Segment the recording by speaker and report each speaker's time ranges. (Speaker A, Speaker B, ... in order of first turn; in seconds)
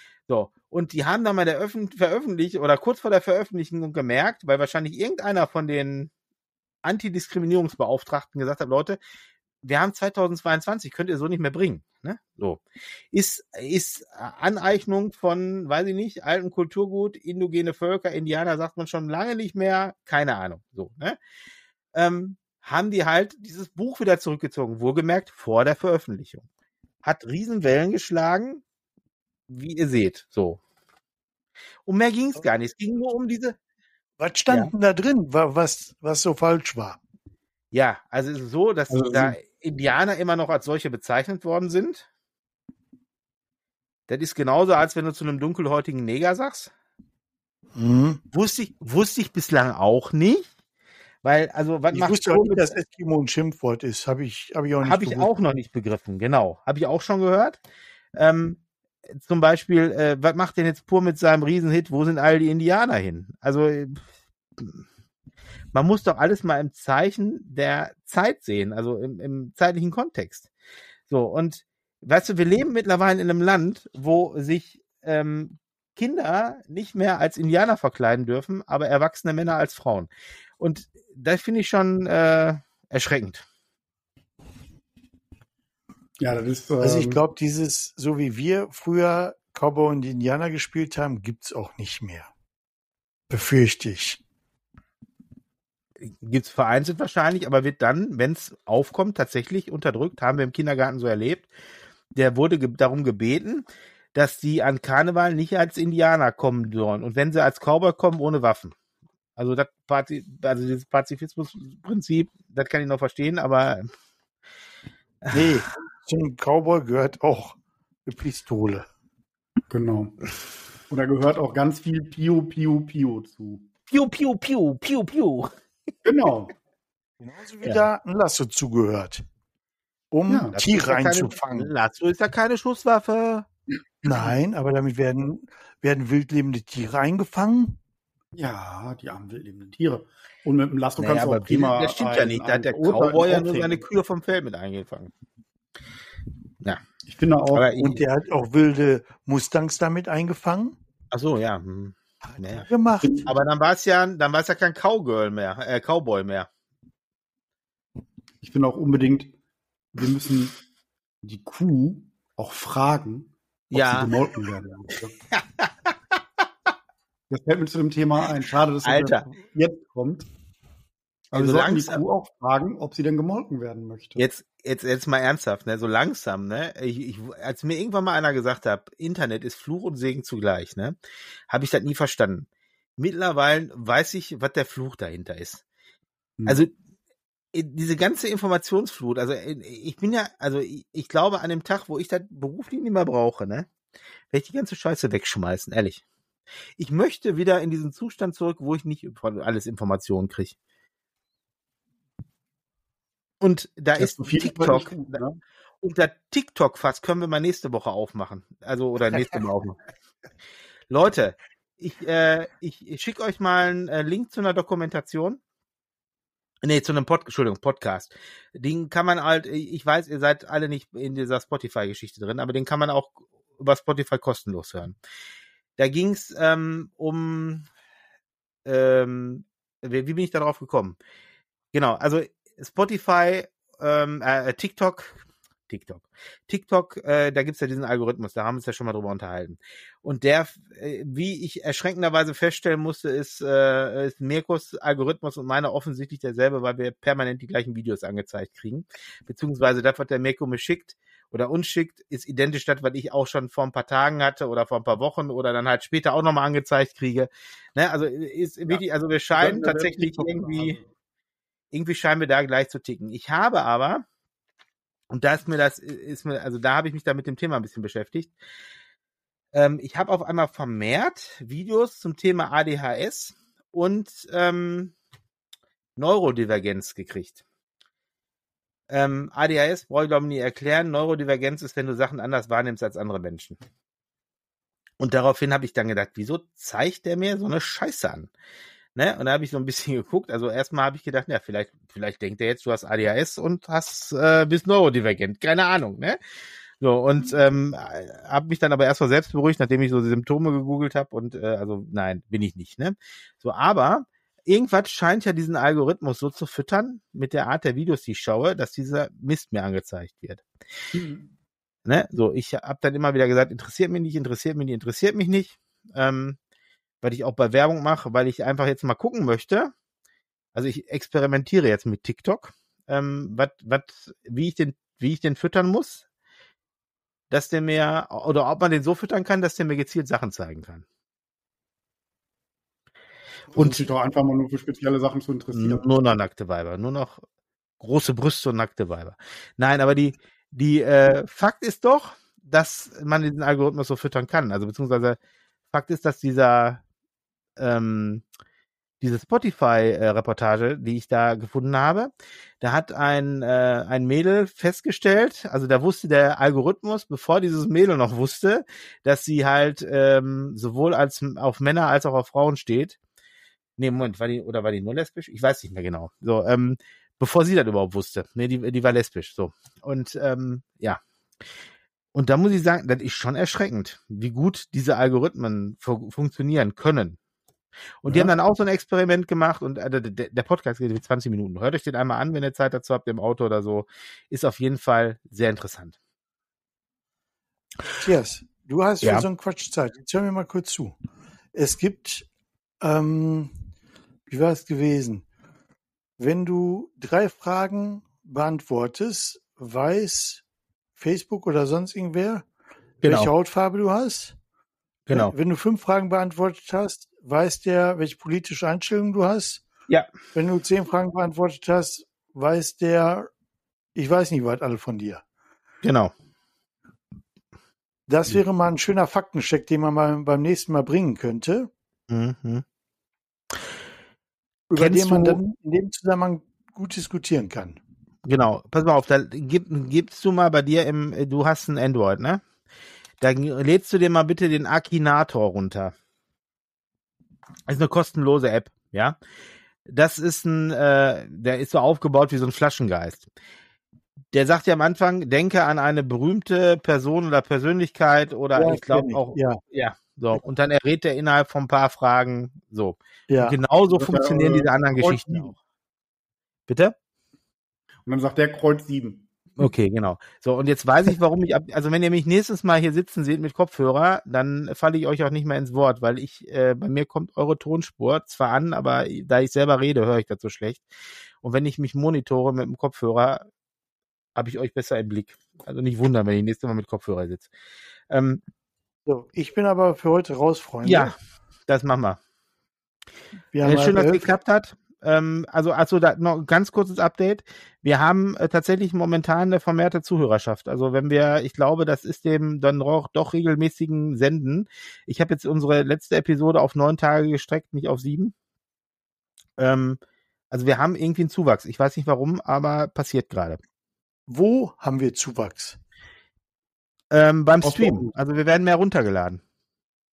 Speaker A: 0.3-6.1, 6.8-9.0, 9.6-21.2, 21.9-26.4, 27.0-28.6, 29.5-30.6, 31.9-33.6, 37.7-42.1, 44.1-46.7, 48.3-50.5, 51.2-52.8, 54.8-57.6, 58.1-58.6, 59.1-64.0, 64.6-64.8, 65.7-70.5, 71.1-83.4, 96.0-101.5, 102.1-108.7, 109.4-113.9, 123.9-125.5, 130.5-133.5, 141.0-145.1, 147.5-148.0, 151.1-152.7, 153.2-156.5, 163.7-164.1, 165.3-165.9, 168.8-169.3, 171.3-172.0, 174.2-180.9, 181.5-185.6, 186.4-186.7, 187.5-193.7, 194.3-196.0, 196.8-200.5, 203.4-205.2, 205.8-209.8, 210.9-215.4, 216.6-224.9, 225.8-227.7, 228.6-231.0, 231.7-260.8, 261.7-264.0, 265.1-268.3, 269.5-274.9, 275.9-277.4, 278.9-283.6, 285.0-288.3, 288.9-296.2, 296.8-310.4, 311.9-316.4, 317.0-319.7, 320.5-326.0, 327.3-330.8, 333.5-333.8, 335.5-337.2, 337.8-345.2, 345.7-346.8, 347.6-348.2, 349.0-363.0, 363.8-371.0, 372.1-377.2, 378.0-385.9, 403.0-403.3, 405.1-405.3, 415.8-416.1, 422.1-422.6, 424.7-425.4, 428.2-432.4, 433.2-435.9, 437.7-439.2, 439.9-443.3, 444.3-455.5, 456.7-456.9, 459.6-470.9, 471.4-473.4, 474.4-477.5, 478.1-478.4, 480.8-481.1, 481.7-482.2, 483.6-498.3, 499.6-500.0, 500.5-503.6, 507.1-509.4
Speaker B: 34.2-37.0, 47.7-48.2, 51.9-55.3, 86.8-92.3, 93.3-94.2, 115.3-118.8, 127.2-129.2, 130.1-131.7, 134.0-137.8, 147.8-150.8, 152.2-153.2, 378.1-378.3, 388.0-391.0, 391.5-392.2, 392.8-393.6, 394.3-395.2, 396.2-400.4, 401.0-402.4, 403.0-404.3, 405.1-409.6, 410.3-413.3, 413.9-415.2, 418.1-421.7, 424.7-427.8, 448.5-449.6, 453.3-453.6, 479.1-481.1, 483.5-484.3, 504.3-505.8
Speaker C: 38.9-39.4, 86.2-87.2, 119.7-120.1, 120.9-123.6, 126.0-126.5, 130.3-130.5, 138.3-143.8, 147.1-147.7, 153.0-153.3, 158.4-159.3, 159.9-160.5, 161.2-165.1, 167.3-170.2, 171.3-174.2, 203.9-205.4, 259.3-260.9, 310.9-311.3, 333.5-335.8, 453.9-455.5, 458.1-459.2, 507.6-508.1